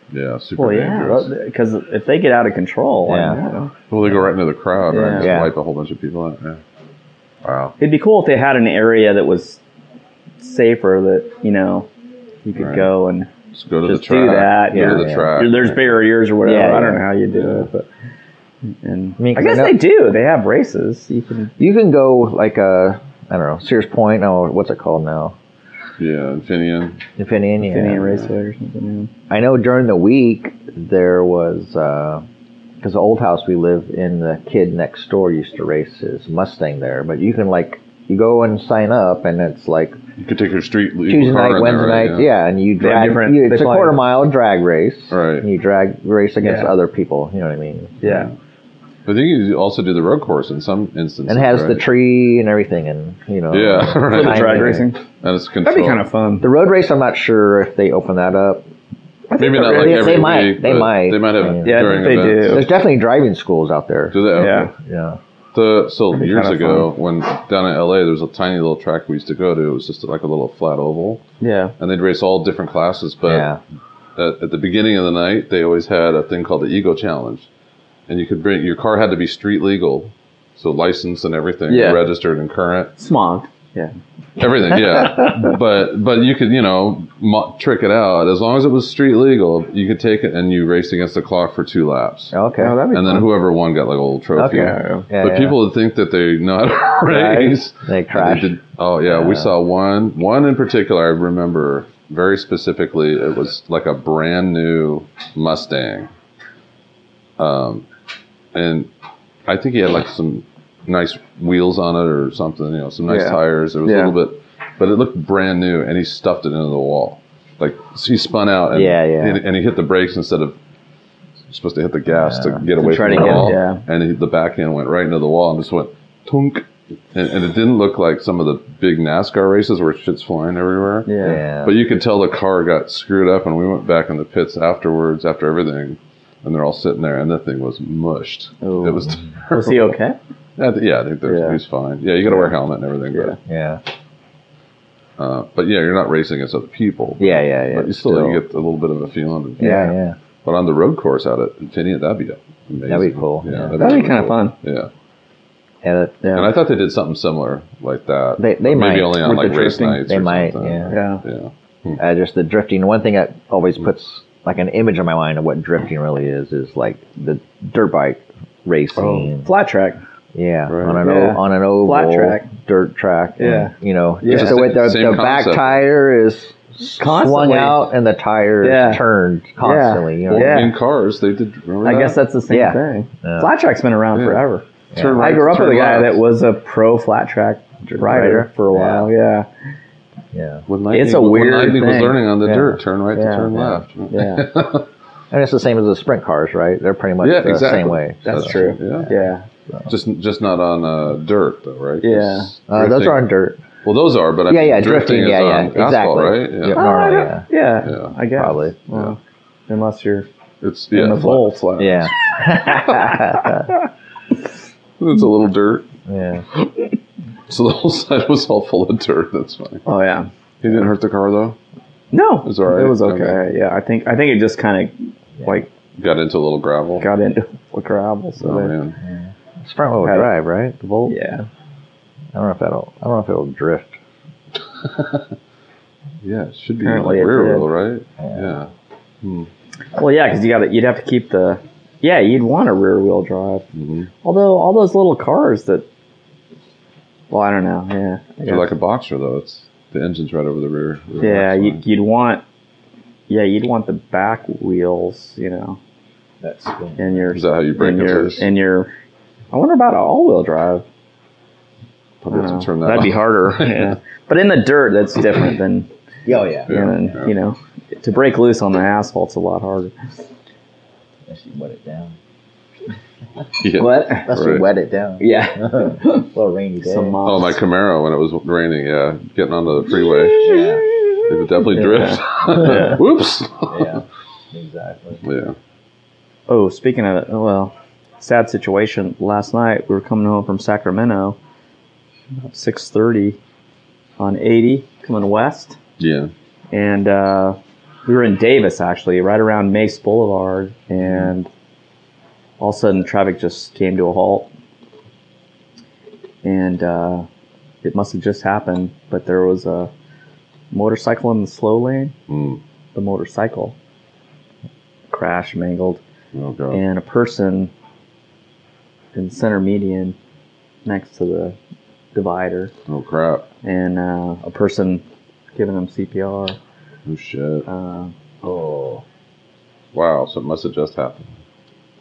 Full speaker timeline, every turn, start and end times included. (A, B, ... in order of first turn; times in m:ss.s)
0:00.1-0:01.3 A
0:00.6-0:03.7 B
0:03.0-0:03.4 C
0:03.9-0:06.6 A
0:04.9-0:05.4 B
0:05.2-0:05.5 C
0:07.4-0:07.7 A
0:07.8-0:09.6 B
0:10.4-0:11.9 B
0:12.4-0:13.3 B
0:12.5-0:12.9 A
0:13.5-0:16.0 A
0:13.8-0:17.9 B
0:14.7-0:15.4 C
0:16.4-0:17.0 C
0:17.3-0:17.7 A
0:18.8-0:21.5 B
0:19.2-0:19.8 C
0:21.6-0:25.4 C
0:26.0-0:27.0 A
0:27.2-0:28.0 C
0:27.6-0:29.1 B
0:27.9-0:28.3 A
0:29.3-0:32.2 C
0:32.8-0:40.0 C
0:40.2-0:42.3 A
0:41.1-0:48.0 C
0:42.8-0:44.0 B
0:45.1-0:45.4 A
0:46.4-0:46.7 B
0:48.0-0:48.3 B
0:48.0-0:48.3 A
0:49.0-0:51.8 A
0:51.3-0:54.8 C
0:53.5-0:56.0 A
0:54.1-0:55.0 B
0:55.6-0:56.5 B
0:56.4-0:58.6 C
0:59.3-1:00.4 B
0:59.4-1:02.7 A
0:59.4-1:05.2 C
1:01.6-1:02.7 B
1:04.1-1:04.7 A
1:04.3-1:04.7 B
1:05.5-1:11.2 A
1:06.1-1:06.9 B
1:11.4-1:11.7 B
1:11.8-1:13.5 A
1:13.2-1:13.6 C
1:14.2-1:17.5 A
1:18.1-1:22.9 A
1:21.7-1:22.0 B
1:23.0-1:23.9 B
1:24.4-1:32.3 A
1:25.0-1:25.5 B
1:32.3-1:32.8 C
1:32.6-1:33.3 B
1:32.9-1:46.1 A
1:34.3-1:35.6 C
1:34.5-1:35.1 B
1:37.1-1:39.5 C
1:47.4-1:47.8 A
1:48.5-1:48.9 A
1:49.4-2:00.6 A
1:53.1-1:54.2 B
1:58.7-1:59.4 C
2:01.5-2:20.0 A
2:02.1-2:03.5 C
2:02.8-2:03.8 B
2:11.0-2:11.4 B
2:11.2-2:11.8 C
2:18.6-2:20.2 B
2:20.6-2:23.4 A
2:21.2-2:21.6 B
2:22.3-2:22.5 B
2:23.4-2:23.8 C
2:25.2-2:29.9 A
2:27.2-2:28.4 C
2:29.6-2:30.2 C
2:29.6-2:29.9 B
2:30.4-2:34.9 A
2:32.8-2:33.8 C
2:33.8-2:34.5 B
2:35.8-2:36.2 C
2:36.2-2:36.5 B
2:36.3-2:42.0 A
2:38.4-2:39.4 C
2:39.2-2:40.0 B
2:40.0-2:40.9 C
2:40.9-2:41.2 B
2:42.0-2:49.5 C
2:49.0-2:50.0 B
2:50.3-3:00.6 C
2:50.7-2:51.0 A
2:51.0-2:52.5 B
2:53.4-2:54.6 B
2:54.2-2:55.8 A
2:57.0-2:57.8 B
2:58.6-2:59.0 B
2:59.6-3:00.7 B
3:00.3-3:02.2 A
3:01.8-3:04.6 B
3:02.5-3:03.5 C
3:04.1-3:06.2 A
3:04.9-3:05.2 C
3:05.2-3:09.5 B
3:07.8-3:09.1 C
3:10.3-3:10.6 C
3:10.7-3:14.9 A
3:10.9-3:12.2 B
3:12.4-3:12.8 C
3:13.1-3:13.5 B
3:13.5-3:13.8 C
3:14.1-3:14.5 B
3:15.3-3:19.1 C
3:17.2-3:19.1 A
3:18.2-3:19.5 B
3:19.8-3:23.3 A
3:22.0-3:22.5 B
3:22.7-3:23.6 C
3:23.8-3:26.8 A
3:24.5-3:27.5 C
3:26.7-3:30.3 B
3:27.8-3:28.1 A
3:28.3-3:28.9 C
3:30.6-3:32.1 A
3:30.9-3:31.6 B
3:31.8-3:33.7 C
3:32.7-3:33.6 B
3:35.0-3:35.8 A
3:36.0-3:36.4 C
3:37.5-3:39.8 A
3:39.8-3:40.3 B
3:40.6-3:41.6 A
3:42.1-3:45.7 B
3:42.4-3:43.4 A
3:45.4-3:45.6 C
3:46.0-3:47.1 A
3:47.0-3:48.7 B
3:48.4-3:49.0 A
3:49.0-3:51.1 C
3:50.0-3:50.3 B
3:51.0-3:51.5 B
3:52.3-3:54.0 C
3:54.8-3:55.2 A
3:56.2-3:58.7 A
3:56.8-3:57.7 B
3:58.2-3:58.6 C
3:59.2-3:59.5 A
3:59.9-4:03.6 B
4:03.7-4:04.1 A
4:04.2-4:05.8 B
4:07.3-4:08.7 B
4:08.4-4:11.8 A
4:11.2-4:12.4 B
4:13.3-4:15.8 B
4:16.4-4:17.3 C
4:17.0-4:18.9 B
4:17.3-4:18.5 A
4:19.5-4:20.8 B
4:22.2-4:24.0 A
4:22.3-4:25.9 B
4:26.2-4:26.8 C
4:26.7-4:27.3 A
4:26.7-4:29.9 B
4:31.3-4:32.1 C
4:33.6-4:34.7 A
4:33.8-4:34.4 B
4:34.2-4:37.2 C
4:35.2-4:36.3 B
4:36.8-4:37.6 B
4:37.2-4:40.5 A
4:40.4-4:40.9 C
4:41.2-4:44.0 A
4:41.7-4:43.0 B
4:42.6-4:42.9 C
4:43.7-4:45.2 C
4:45.2-4:45.6 A
4:46.5-4:51.4 B
4:52.4-4:53.4 B
4:54.2-4:55.8 B
4:56.0-4:56.3 A
4:56.7-5:01.5 B
5:01.0-5:01.3 A
5:02.6-5:04.5 B
5:06.4-5:07.3 B
5:07.8-5:09.9 B
5:10.7-5:12.1 B
5:12.3-5:12.6 A
5:12.9-5:13.8 B
5:15.1-5:16.0 B
5:16.3-5:16.8 A
5:16.7-5:17.7 B
5:19.1-5:20.2 B
5:20.8-5:21.6 B
5:22.1-5:22.7 B
5:22.9-5:23.4 A
5:23.6-5:26.6 B
5:27.0-5:27.7 A
5:27.7-5:28.1 B
5:28.4-5:29.0 C
5:29.9-5:31.3 A